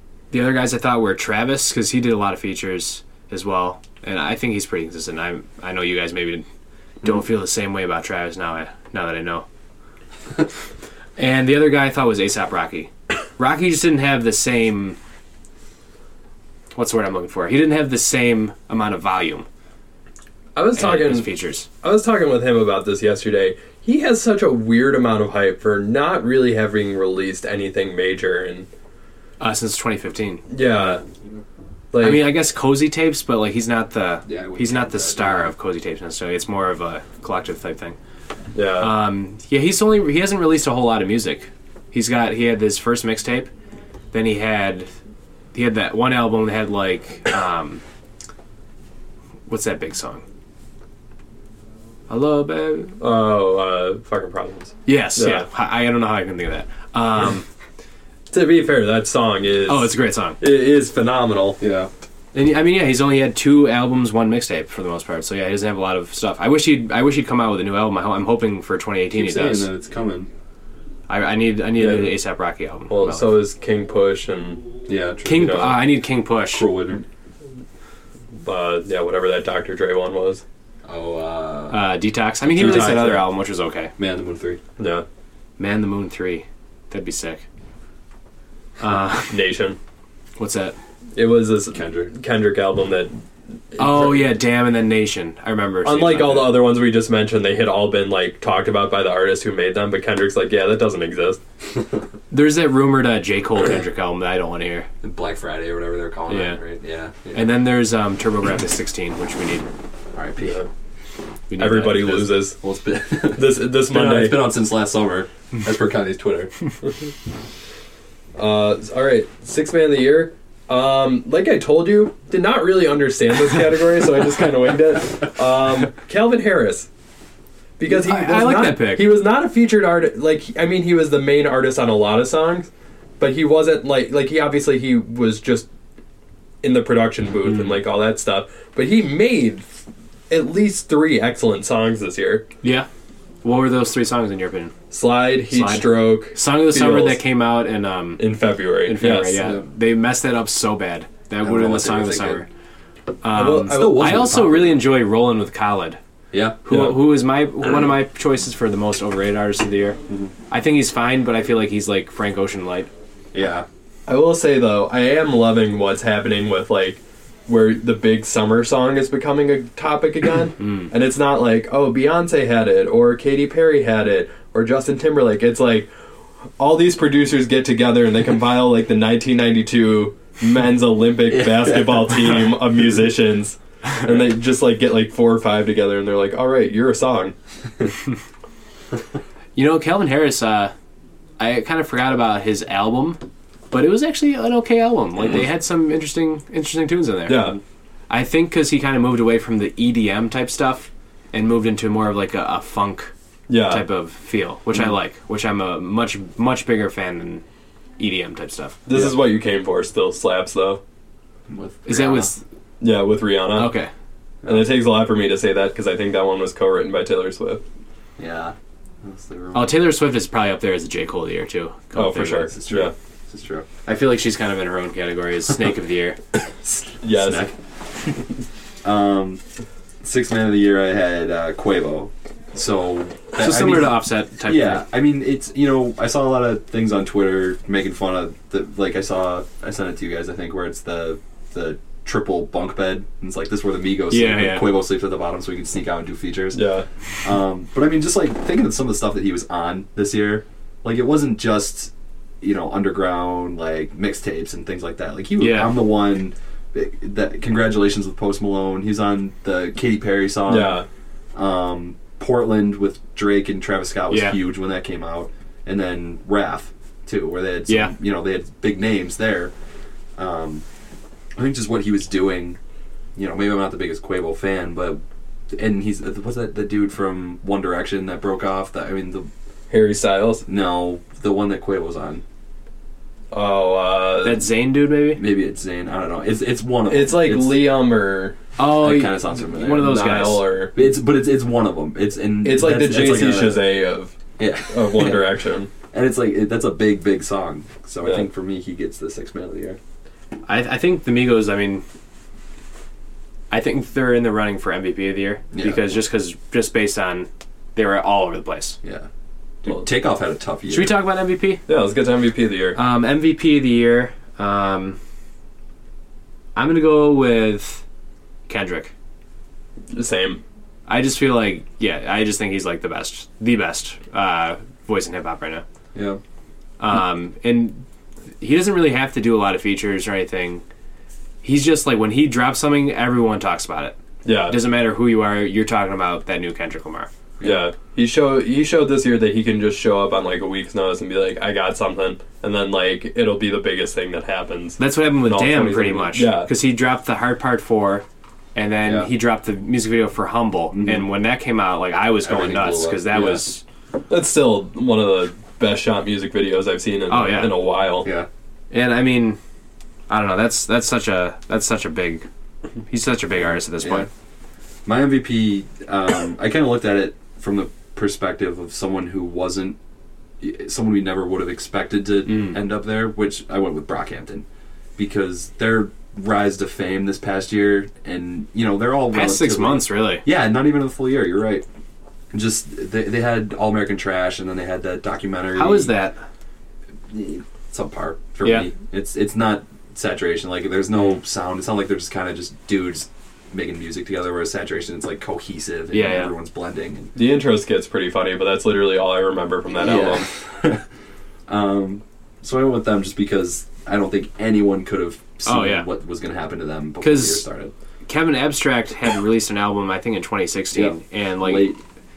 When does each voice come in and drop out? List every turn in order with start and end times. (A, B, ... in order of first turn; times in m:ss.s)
0:00.3-0:06.4 A
0:07.0-0:09.4 A
0:11.2-0:15.0 A
0:16.7-0:19.4 A
0:20.5-0:21.3 B
0:20.8-0:21.7 A
0:21.8-0:28.7 B
0:29.4-0:30.4 A
0:30.5-0:31.0 B
0:31.9-0:32.3 B
0:32.0-0:38.0 A
0:34.3-0:35.5 C
0:38.5-0:38.9 B
0:38.8-0:43.5 A
0:44.1-0:44.9 A
0:45.5-0:47.8 A
0:49.5-0:50.2 A
0:52.1-0:53.0 A
0:53.0-0:55.4 B
0:54.8-0:57.4 A
0:58.3-1:01.6 B
0:59.6-1:00.4 A
1:01.6-1:01.9 C
1:02.3-1:09.7 A
1:09.1-1:10.3 C
1:11.1-1:13.4 A
1:11.8-1:12.2 B
1:12.9-1:14.6 B
1:14.9-1:15.8 C
1:15.2-1:16.7 A
1:15.3-1:15.8 B
1:16.5-1:17.0 C
1:18.4-1:20.4 B
1:20.8-1:21.8 C
1:21.7-1:23.9 A
1:22.5-1:23.2 B
1:22.5-1:23.2 C
1:24.0-1:24.6 C
1:24.8-1:25.0 B
1:25.6-1:27.4 A
1:28.8-1:29.4 A
1:29.3-1:29.8 B
1:30.4-1:30.8 A
1:31.2-1:33.1 B
1:31.7-1:32.1 C
1:33.7-1:34.3 B
1:33.8-1:36.6 A
1:35.8-1:41.4 B
1:42.3-1:44.9 A
1:45.0-1:47.5 C
1:46.3-1:46.6 A
1:47.3-1:49.7 A
1:50.1-1:50.6 C
1:50.4-1:50.7 B
1:51.5-1:52.3 A
1:51.6-1:52.6 B
1:52.6-1:56.5 C
1:53.3-1:54.5 B
1:58.4-2:06.9 B
2:07.8-2:15.7 B
2:07.9-2:09.1 A
2:16.6-2:19.7 B
2:17.4-2:17.8 A
2:20.3-2:22.4 B
2:22.6-2:22.9 A
2:23.4-2:24.7 A
2:24.9-2:27.2 B
2:25.5-2:28.2 A
2:28.2-2:29.5 B
2:28.9-2:32.5 A
2:31.4-2:32.4 C
2:33.2-2:36.0 A
2:33.3-2:34.5 B
2:33.6-2:34.8 C
2:36.3-2:36.6 C
2:36.6-2:40.0 A
2:36.7-2:37.0 B
2:40.5-2:42.9 A
2:43.3-2:43.6 C
2:44.1-2:55.9 B
2:56.6-3:07.3 B
3:01.3-3:02.4 C
3:09.6-3:10.7 A
3:11.4-3:13.2 A
3:13.7-3:17.5 A
3:17.3-3:17.6 B
3:18.1-3:23.1 A
3:23.5-3:23.9 B
3:23.6-3:27.4 A
3:28.0-3:28.9 A
3:28.8-3:30.8 B
3:31.5-3:32.3 C
3:31.8-3:32.4 A
3:32.8-3:33.7 B
3:33.5-3:33.9 A
3:34.4-3:37.6 B
3:38.2-3:39.8 C
3:39.5-3:42.5 A
3:41.9-3:42.9 B
3:42.5-3:43.6 C
3:43.8-3:46.2 A
3:47.0-3:47.5 B
3:47.0-3:47.5 C
3:48.8-3:49.4 C
3:50.0-4:06.6 C
3:53.4-3:54.8 A
4:04.1-4:04.7 A
4:06.5-4:06.9 B
4:07.2-4:20.8 C
4:15.4-4:15.8 A
4:20.5-4:20.8 B
4:21.3-4:29.5 C
4:24.1-4:24.4 A
4:27.7-4:27.9 A
4:30.2-4:30.6 C
4:31.4-4:32.6 C
4:33.2-4:35.0 C
4:35.5-4:39.3 C
4:39.7-4:40.4 B
4:40.4-4:42.2 C
4:43.3-4:44.4 B
4:44.2-4:45.2 A
4:45.2-4:47.6 C
4:46.9-4:48.4 B
4:48.6-4:50.4 A
4:48.6-4:50.0 C
4:49.7-4:50.8 B
4:50.7-4:53.6 C
4:52.4-4:54.1 B
4:54.4-4:55.3 C
4:54.7-4:55.7 B
4:55.9-4:59.8 C
5:00.5-5:01.8 A
5:03.5-5:08.8 A
5:05.5-5:05.9 C
5:09.6-5:11.0 C
5:10.7-5:11.6 A
5:11.7-5:12.8 B
5:12.7-5:15.0 A
5:16.5-5:17.8 A
5:18.5-5:18.9 A
5:19.9-5:20.4 B
5:20.9-5:25.6 A
5:25.9-5:26.2 C
5:26.8-5:27.8 A
5:28.4-5:30.6 A
5:31.4-5:37.1 A
5:34.2-5:34.6 B
5:37.4-5:46.5 B
5:44.8-5:53.6 A
5:48.8-5:49.1 C
5:50.7-5:51.1 C
5:52.2-5:53.4 C
5:54.1-5:58.1 B
5:57.1-5:57.6 A
5:58.0-5:58.3 C
5:58.7-5:59.4 A
6:00.1-6:02.2 A
6:02.9-6:04.1 A
6:03.8-6:04.1 C
6:04.8-6:09.8 C
6:10.4-6:14.4 C
6:12.3-6:12.6 A
6:15.0-6:21.6 C
6:19.1-6:20.2 A
6:22.3-6:25.9 C
6:25.5-6:26.2 A
6:27.1-6:37.1 C
6:28.4-6:28.7 A
6:35.9-6:36.3 A
6:37.1-6:40.3 B
6:39.8-6:40.2 A
6:39.8-6:40.8 C
6:41.5-6:47.7 C
6:45.4-6:45.9 A
6:47.0-6:47.4 A
6:48.1-6:51.7 A
6:50.7-6:51.8 C